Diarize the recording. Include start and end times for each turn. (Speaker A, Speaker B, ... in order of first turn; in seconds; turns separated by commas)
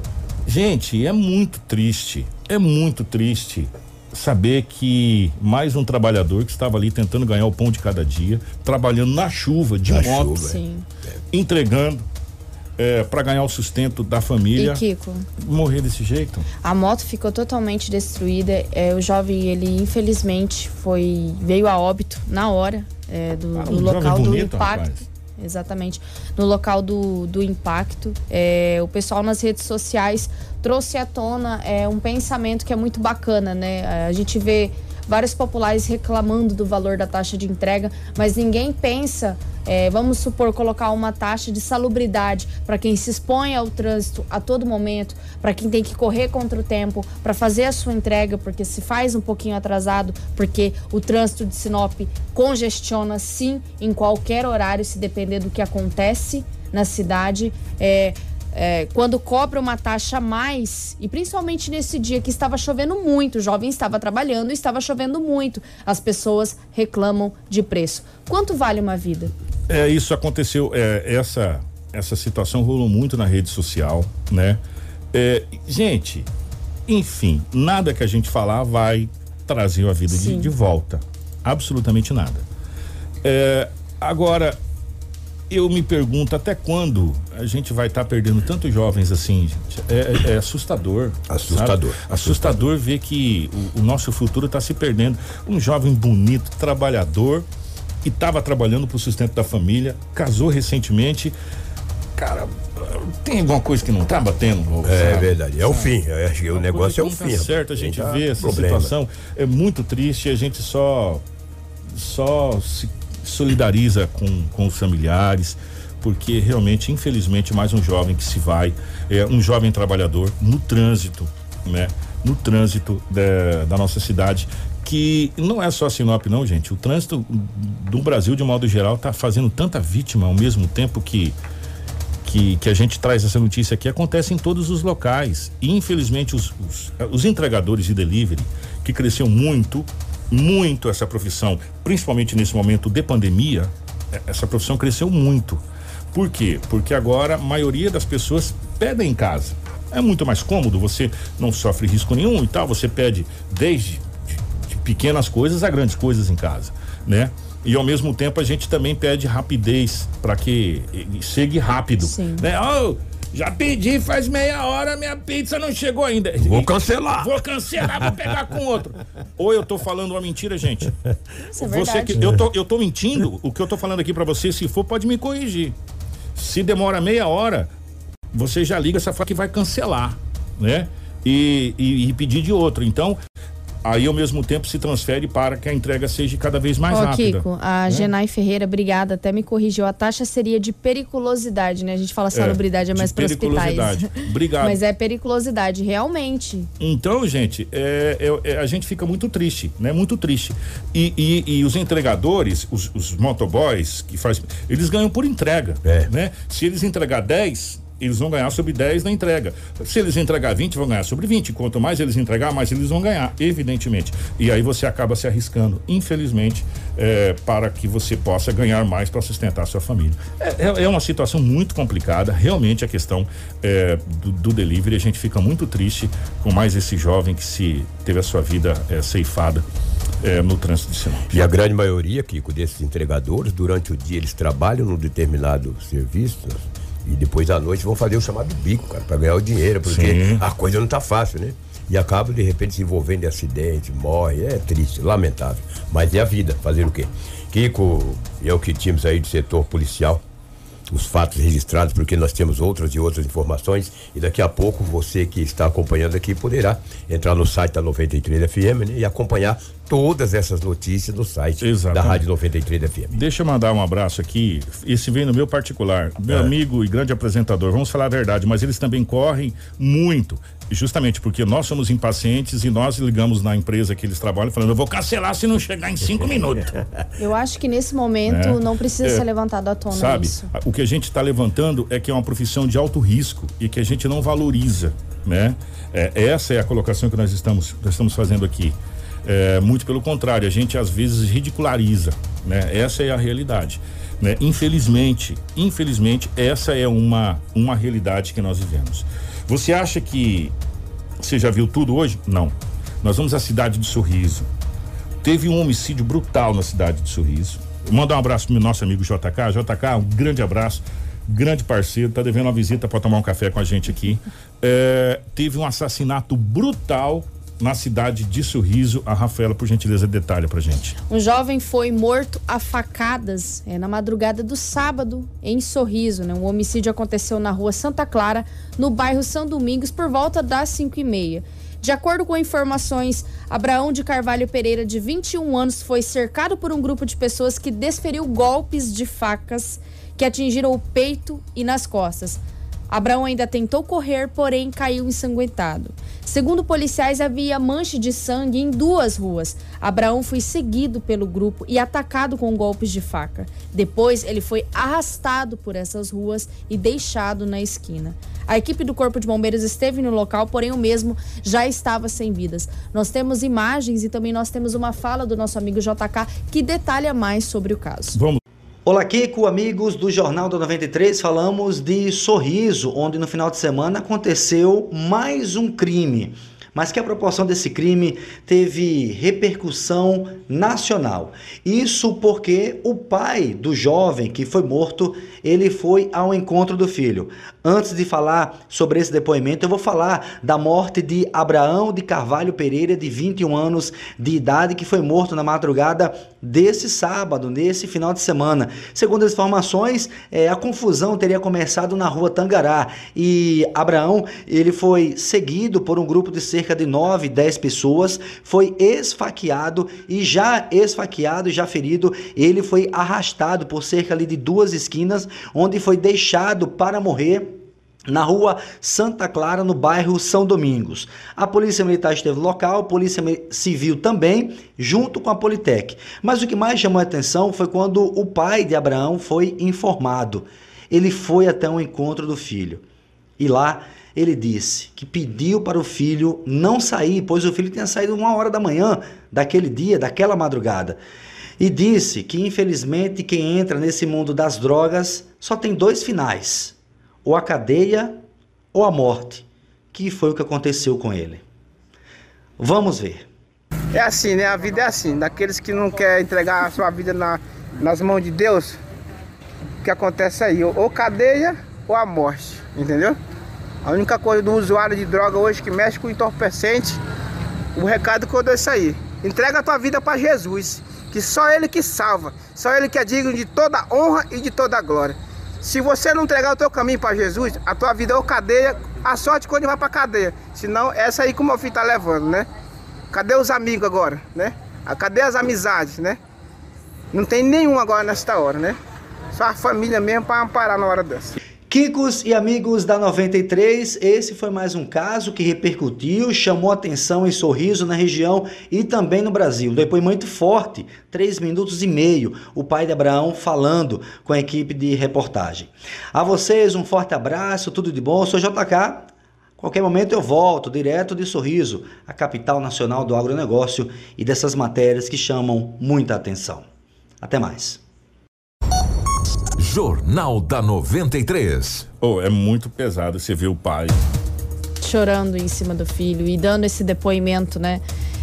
Speaker A: 0.5-10.4, Speaker B: 9.8-10.6, Speaker C: 10.4-10.8, Speaker A: 11.3-12.0, Speaker A: 12.8-14.8, Speaker C: 14.6-15.2, Speaker A: 15.4-16.5, Speaker C: 16.6-69.3, Speaker A: 23.5-25.0, Speaker A: 69.7-74.6, Speaker A: 75.1-76.3, Speaker A: 76.9-82.4, Speaker C: 80.1-80.5, Speaker A: 83.2-84.6, Speaker A: 85.5-97.5, Speaker B: 91.3-92.7, Speaker A: 98.0-101.3, Speaker A: 102.2-105.9, Speaker B: 104.8-108.9, Speaker A: 106.5-111.2, Speaker A: 111.9-131.4, Speaker A: 132.2-145.6, Speaker A: 146.1-170.9, Speaker C: 162.0-162.4, Speaker B: 166.4-168.3, Speaker C: 171.4-172.2, Speaker A: 171.6-175.7, Speaker A: 176.3-177.7, Speaker A: 178.3-183.2, Speaker A: 183.8-188.1, Speaker C: 186.9-196.7, Speaker A: 192.3-194.8, Speaker A: 196.8-229.6, Speaker B: 205.8-206.1, Speaker A: 230.2-231.3, Speaker B: 231.3-250.2, Speaker A: 239.8-240.4, Speaker B: 250.9-263.2, Speaker A: 261.6-262.2, Speaker A: 263.1-276.7, Speaker B: 266.3-266.5, Speaker C: 277.2-280.5, Speaker A: 278.3-279.2, Speaker A: 279.9-300.5, Speaker A: 301.2-304.4, Speaker A: 305.2-320.9, Speaker C: 321.1-368.2, Speaker A: 368.1-368.4, Speaker D: 368.8-432.8, Speaker D: 433.4-441.0, Speaker D: 441.6-448.2, Speaker D: 448.7-451.4, Speaker D: 452.6-453.2, Speaker E: 453.9-458.8, Speaker E: 459.8-463.2, Speaker E: 463.8-467.0, Speaker E: 467.8-482.4, Speaker E: 483.1-486.2, Speaker E: 487.1-488.8, Speaker E: 489.3-491.4, Speaker D: 491.7-509.1, Speaker D: 509.6-516.6, Speaker D: 517.2-517.8, Speaker F: 519.6-521.9, Speaker A: 522.0-524.0, Speaker C: 524.8-527.8